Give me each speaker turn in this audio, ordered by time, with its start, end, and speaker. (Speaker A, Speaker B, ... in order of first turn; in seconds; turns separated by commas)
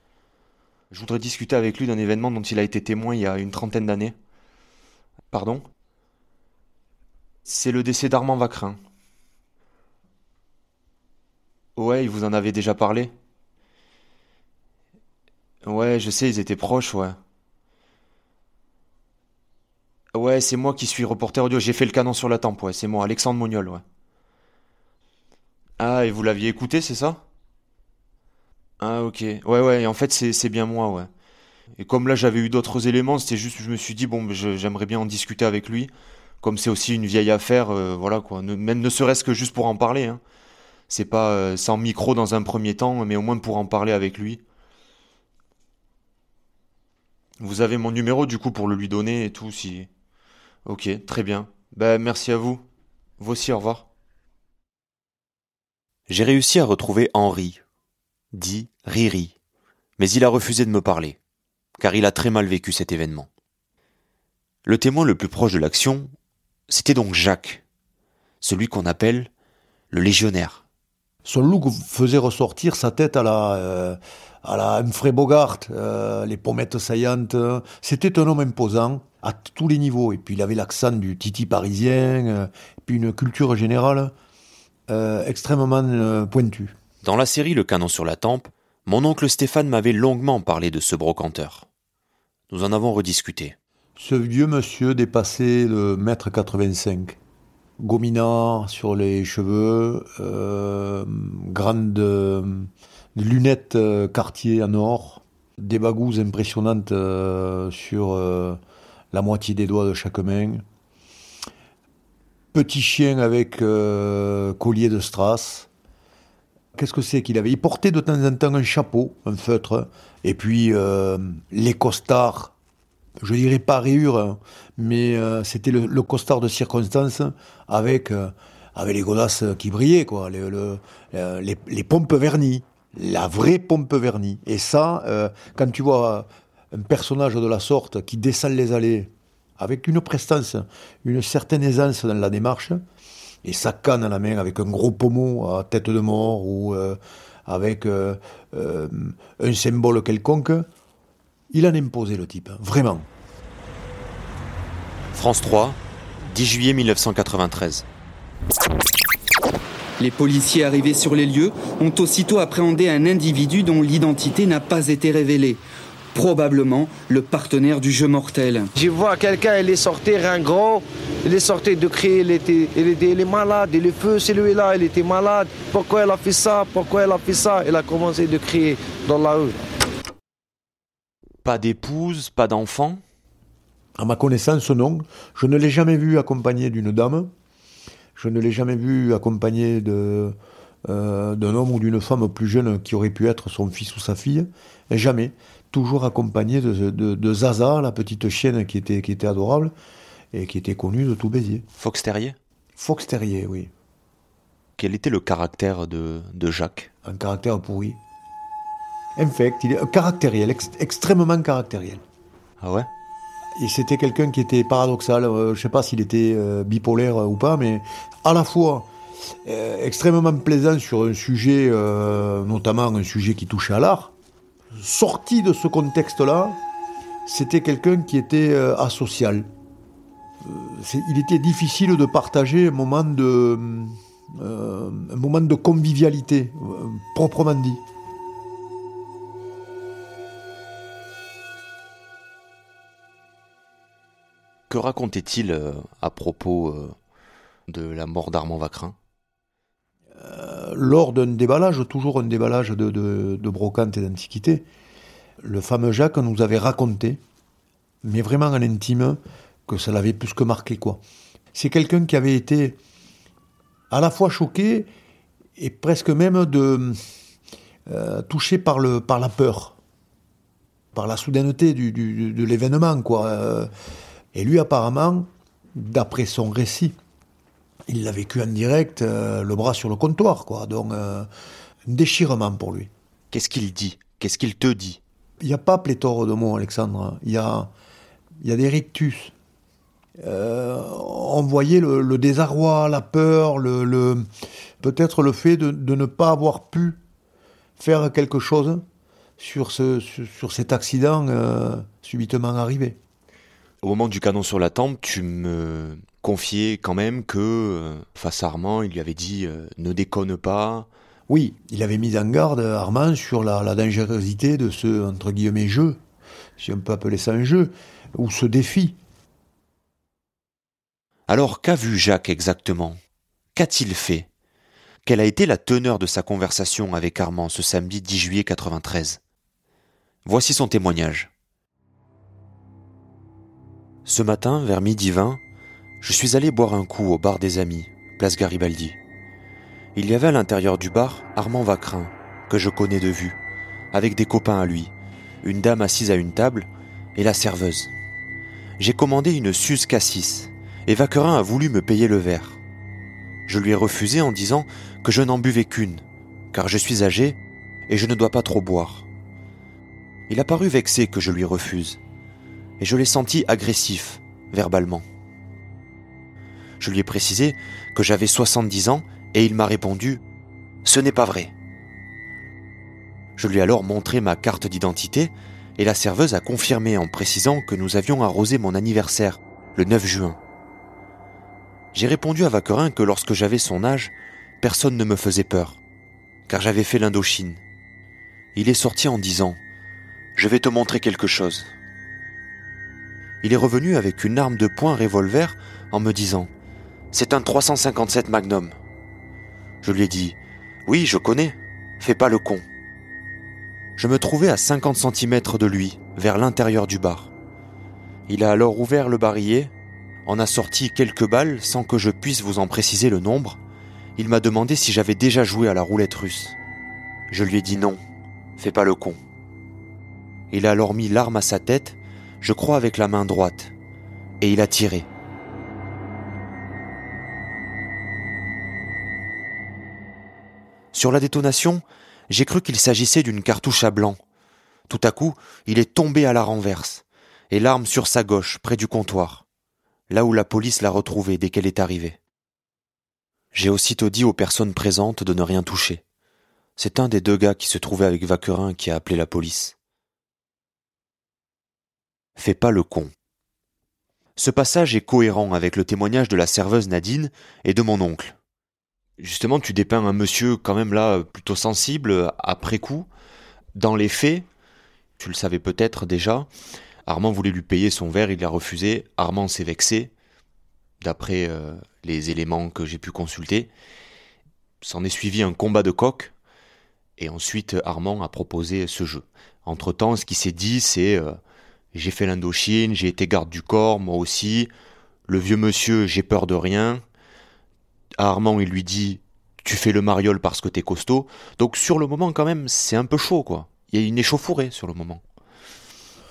Speaker A: 0.9-4.1, Speaker A: 5.3-5.7, Speaker A: 7.5-8.8, Speaker A: 11.8-13.1, Speaker A: 15.6-17.2, Speaker A: 20.1-23.8, Speaker A: 25.8-27.2, Speaker A: 28.8-31.1, Speaker A: 31.8-35.9, Speaker A: 36.4-40.2, Speaker A: 40.9-44.4, Speaker A: 47.4-49.9, Speaker A: 50.6-52.6, Speaker A: 53.2-53.9, Speaker A: 56.1-57.6, Speaker A: 58.3-59.3, Speaker A: 60.0-61.2, Speaker A: 61.8-63.3, Speaker A: 64.6-66.1, Speaker A: 66.7-67.6, Speaker A: 68.4-69.3, Speaker A: 69.9-70.6, Speaker B: 71.2-84.1, Speaker B: 84.9-86.7, Speaker A: 87.0-91.7, Speaker A: 92.5-93.5, Speaker B: 94.0-97.2, Speaker B: 97.8-108.6, Speaker B: 109.1-110.6, Speaker B: 112.5-115.7, Speaker B: 116.7-122.5, Speaker B: 123.2-142.8, Speaker B: 143.4-150.7, Speaker B: 151.5-153.1, Speaker A: 155.1-157.8, Speaker C: 160.0-165.6, Speaker C: 166.1-168.7, Speaker D: 168.8-179.6, Speaker A: 181.4-183.0, Speaker B: 184.0-187.3, Speaker B: 188.2-190.3, Speaker B: 190.9-199.7, Speaker B: 200.3-201.6, Speaker A: 201.8-202.4, Speaker B: 202.8-203.7, Speaker A: 204.8-206.9, Speaker B: 207.0-208.0, Speaker B: 209.2-212.0, Speaker A: 212.6-212.9, Speaker B: 213.6-218.9, Speaker B: 219.4-224.1, Speaker B: 224.7-226.6, Speaker B: 227.2-229.5, Speaker B: 230.4-237.8, Speaker A: 244.7-246.9, Speaker A: 247.7-248.9, Speaker B: 250.2-254.7, Speaker B: 255.4-257.2, Speaker B: 258.0-261.0, Speaker B: 261.5-262.8, Speaker B: 263.9-264.9, Speaker B: 265.6-267.0, Speaker B: 267.9-269.8, Speaker B: 270.9-273.7, Speaker B: 274.3-276.9, Speaker B: 277.9-281.3, Speaker B: 281.9-282.9, Speaker A: 283.3-285.0, Speaker B: 285.4-287.7, Speaker B: 288.4-289.3, Speaker B: 290.2-294.3, Speaker B: 294.8-297.0, Speaker B: 297.8-298.8, Speaker B: 299.4-303.0, Speaker A: 303.8-310.9, Speaker B: 311.3-316.0, Speaker B: 316.6-319.0, Speaker A: 321.3-323.0, Speaker A: 323.5-324.3, Speaker A: 325.0-329.2, Speaker A: 330.2-331.3, Speaker A: 334.1-335.4, Speaker A: 336.0-339.0, Speaker A: 339.9-343.4, Speaker A: 343.9-344.9, Speaker A: 345.4-347.9, Speaker A: 348.8-352.6, Speaker A: 353.5-357.4, Speaker A: 357.9-359.1, Speaker A: 360.3-362.0, Speaker A: 362.8-365.0, Speaker A: 366.8-370.2, Speaker A: 370.8-371.5, Speaker A: 373.4-380.4, Speaker A: 381.9-385.8, Speaker A: 386.5-387.6, Speaker A: 388.5-389.6, Speaker A: 390.4-391.7, Speaker A: 393.4-396.5, Speaker A: 397.1-398.8, Speaker A: 399.8-402.6, Speaker A: 404.0-407.3, Speaker A: 408.3-409.7, Speaker A: 410.2-413.6, Speaker A: 414.2-416.6, Speaker A: 417.3-418.0, Speaker A: 418.6-419.2, Speaker A: 420.5-423.7, Speaker A: 424.4-425.1, Speaker A: 430.9-434.2, Speaker A: 434.9-439.4, Speaker A: 440.1-442.2, Speaker A: 443.5-446.0, Speaker A: 446.8-449.7, Speaker A: 452.4-453.1, Speaker A: 454.4-458.4, Speaker A: 459.2-463.1, Speaker A: 463.8-464.4, Speaker A: 465.2-466.5, Speaker A: 467.1-470.1, Speaker A: 471.0-473.7, Speaker A: 474.8-476.3, Speaker A: 477.2-481.4, Speaker A: 481.9-484.7, Speaker A: 485.3-487.0, Speaker A: 488.2-495.2